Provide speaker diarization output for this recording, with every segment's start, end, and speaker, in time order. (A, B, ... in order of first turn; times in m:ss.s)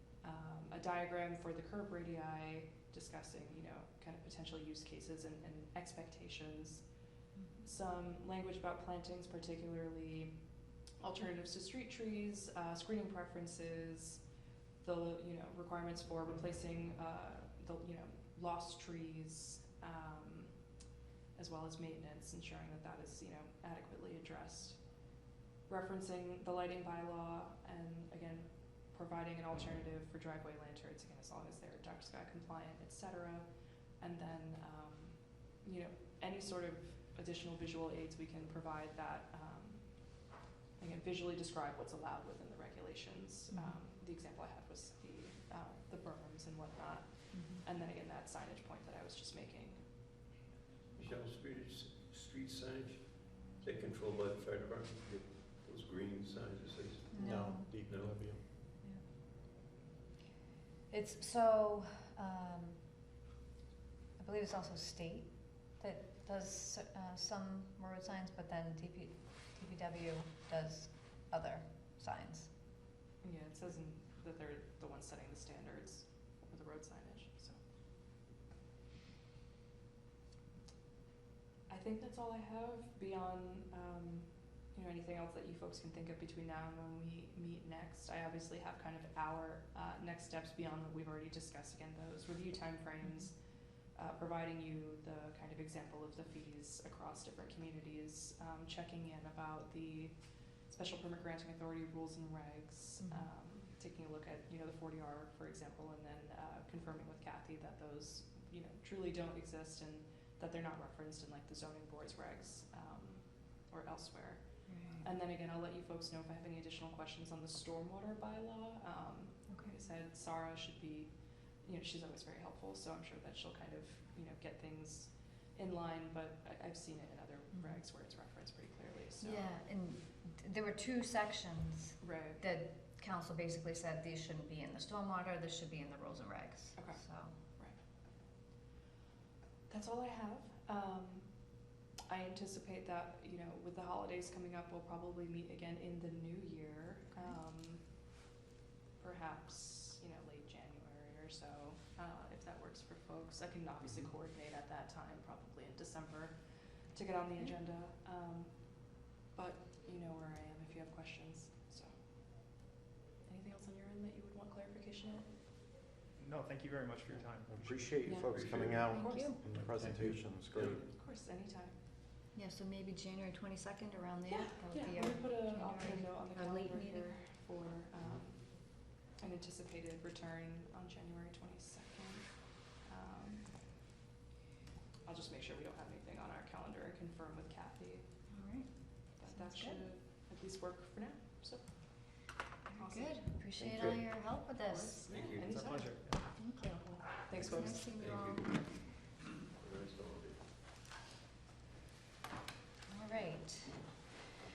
0:00.2-0:06.9 A
0:07.6-0:14.3 A
0:14.8-0:20.7 A
0:21.3-0:25.1 A
0:25.7-0:49.9 A
0:43.5-0:43.8 B
0:47.3-0:47.6 B
0:50.9-0:58.3 C
0:57.1-0:57.7 B
0:57.2-0:58.4 D
1:00.9-1:02.8 B
1:04.2-1:12.5 B
1:13.2-1:17.6 A
1:21.7-2:09.5 A
1:33.0-1:33.3 B
1:43.0-1:43.3 B
1:54.7-1:55.0 B
1:59.5-1:59.8 B
2:09.2-2:17.3 B
2:12.0-2:12.4 A
2:16.8-2:17.8 A
2:19.7-2:28.1 A
2:29.0-2:41.9 A
2:43.2-2:45.3 A
2:46.2-2:47.7 E
2:47.5-2:50.7 D
2:48.0-2:49.3 A
2:48.2-2:48.9 C
2:48.9-2:49.4 B
2:49.6-2:50.8 C
2:50.7-2:51.7 A
2:52.3-2:57.1 B
2:54.3-3:03.7 A
3:05.0-3:08.0 A
3:08.3-3:09.8 B
3:09.2-3:12.1 A
3:12.7-3:15.0 B
3:12.8-3:13.2 A
3:13.6-3:14.0 C
3:14.6-3:17.8 A
3:15.1-3:15.5 C
3:15.4-3:16.2 E
3:16.4-3:18.5 B
3:17.5-3:20.4 C
3:22.9-3:23.8 B